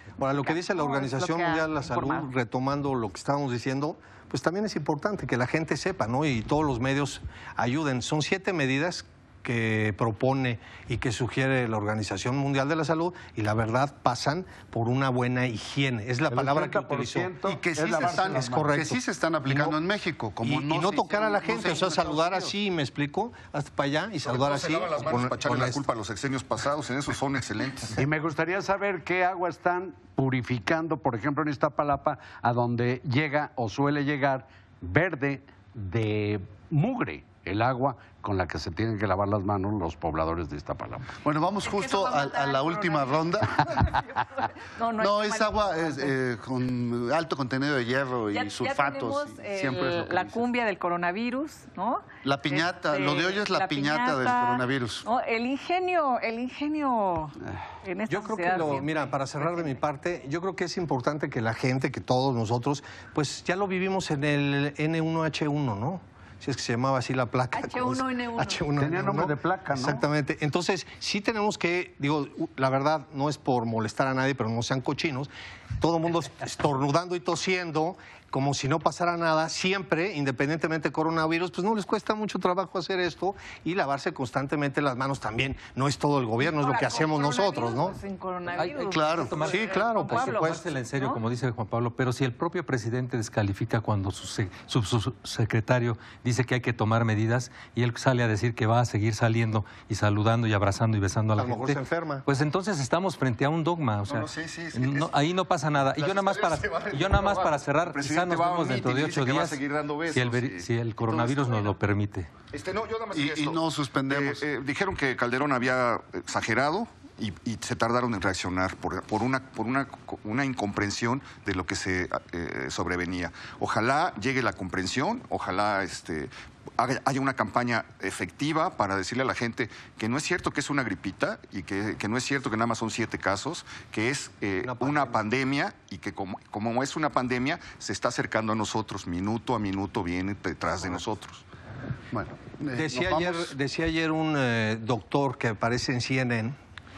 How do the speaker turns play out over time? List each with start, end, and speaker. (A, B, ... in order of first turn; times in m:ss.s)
0:00.2-0:17.4 A
0:00.3-0:02.3 B
0:16.3-0:18.7 C
0:17.4-0:22.5 D
0:18.2-0:19.8 A
0:20.4-0:25.8 A
0:24.2-0:28.0 E
0:28.0-0:41.2 C
0:41.2-0:43.9 D
0:41.6-0:46.1 B
0:45.0-0:50.5 D
0:48.3-0:59.8 B
0:52.2-0:55.1 D
0:58.1-1:28.0 A
1:07.5-1:08.6 B
1:08.8-1:10.0 C
1:26.4-1:31.2 B
1:28.6-1:49.6 F
1:28.9-1:29.4 D
1:29.4-1:30.6 A
1:41.4-1:42.2 A
1:44.1-1:45.1 E
1:45.9-1:51.6 E
1:50.1-1:52.3 F
1:52.5-2:21.4 E
1:53.1-1:54.4 D
2:14.6-2:15.2 A
2:22.1-2:23.5 D
2:22.7-2:26.6 A